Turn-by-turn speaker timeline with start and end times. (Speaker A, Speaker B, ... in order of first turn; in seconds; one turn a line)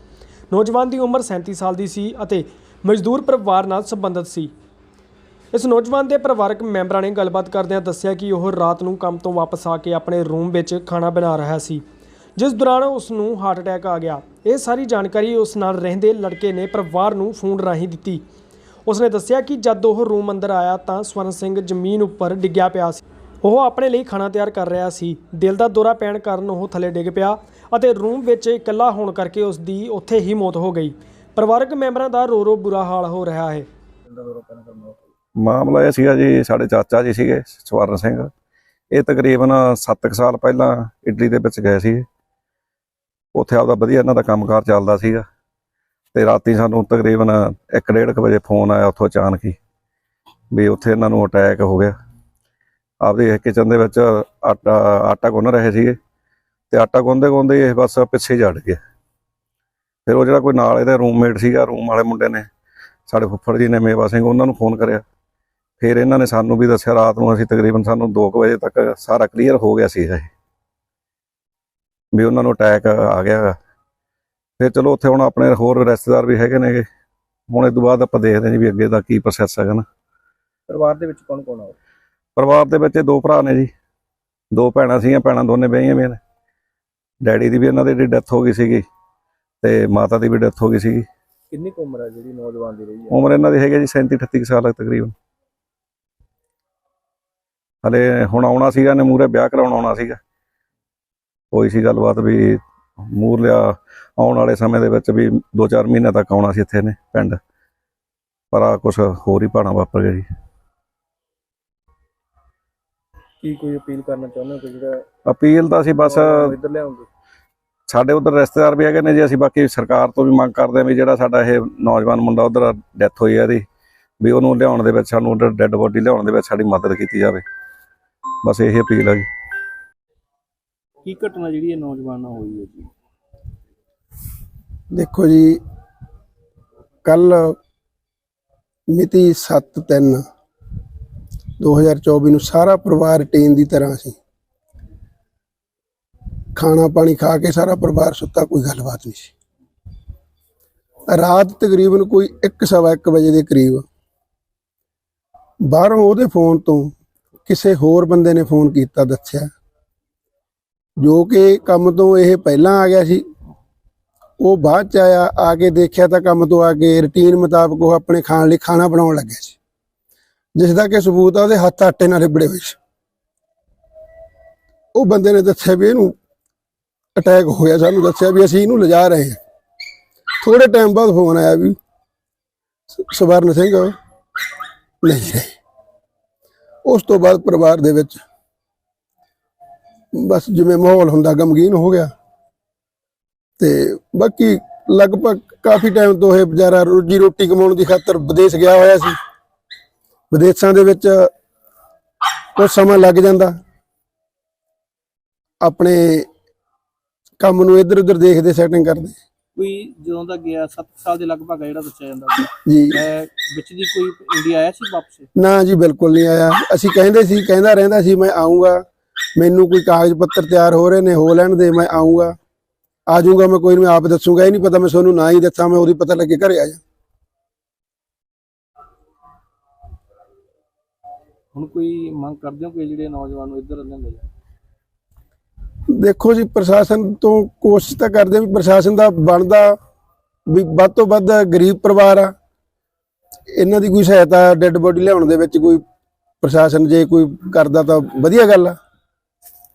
Speaker A: 0.5-4.5
Speaker A: 5.5-11.8
Speaker A: 12.4-18.2
Speaker A: 18.9-33.7
Speaker B: 34.1-35.0
Speaker C: 35.4-38.3
Speaker C: 38.9-42.0
Speaker C: 43.3-45.2
Speaker C: 46.1-49.5
Speaker C: 50.5-51.9
Speaker C: 53.0-56.0
Speaker C: 56.7-58.8
Speaker C: 60.0-62.5
Speaker C: 63.1-65.0
Speaker C: 65.8-70.3
Speaker C: 72.1-73.5
Speaker C: 74.6-76.8
Speaker C: 77.5-79.8
Speaker B: 80.7-81.8
Speaker C: 82.3-83.7
Speaker C: 84.5-86.2
Speaker C: 87.2-88.8
Speaker C: 89.6-91.0
Speaker B: 91.5-93.2
Speaker C: 93.1-95.1
Speaker C: 97.8-100.2
Speaker C: 101.5-107.4
Speaker C: 108.5-110.3
Speaker B: 113.4-115.0
Speaker C: 115.3-116.5
Speaker B: 116.0-117.1
Speaker C: 117.9-123.6
Speaker C: 124.2-127.4
Speaker C: 128.4-129.3
Speaker B: 131.0-132.9
Speaker D: 134.9-135.6
Speaker D: 137.0-137.6
Speaker D: 138.9-140.2
Speaker D: 141.6-144.2
Speaker D: 146.6-149.3
Speaker D: 151.1-153.8
Speaker D: 155.6-156.9
Speaker D: 157.4-159.5
Speaker D: 161.0-163.2
Speaker D: 164.4-169.6
Speaker D: 170.6-172.8
Speaker D: 174.9-176.2
Speaker D: 177.2-179.4
Speaker D: 180.4-181.8
Speaker D: 182.9-183.9
Speaker D: 185.0-185.5
Speaker D: 186.8-188.2
Speaker D: 190.1-192.1
Speaker D: 193.6-199.2
Speaker D: 200.3-201.3
Speaker D: 202.6-203.6
Speaker D: 205.6-206.3
Speaker D: 207.4-209.2
Speaker B: 209.6-215.3
Speaker D: 212.7-213.0
Speaker D: 215.3-218.8
Speaker D: 219.4-222.3
Speaker D: 223.1-226.8
Speaker B: 231.5-234.3
Speaker D: 235.9-239.7
Speaker D: 240.5-242.3
Speaker D: 243.6-245.8
Speaker D: 246.4-248.7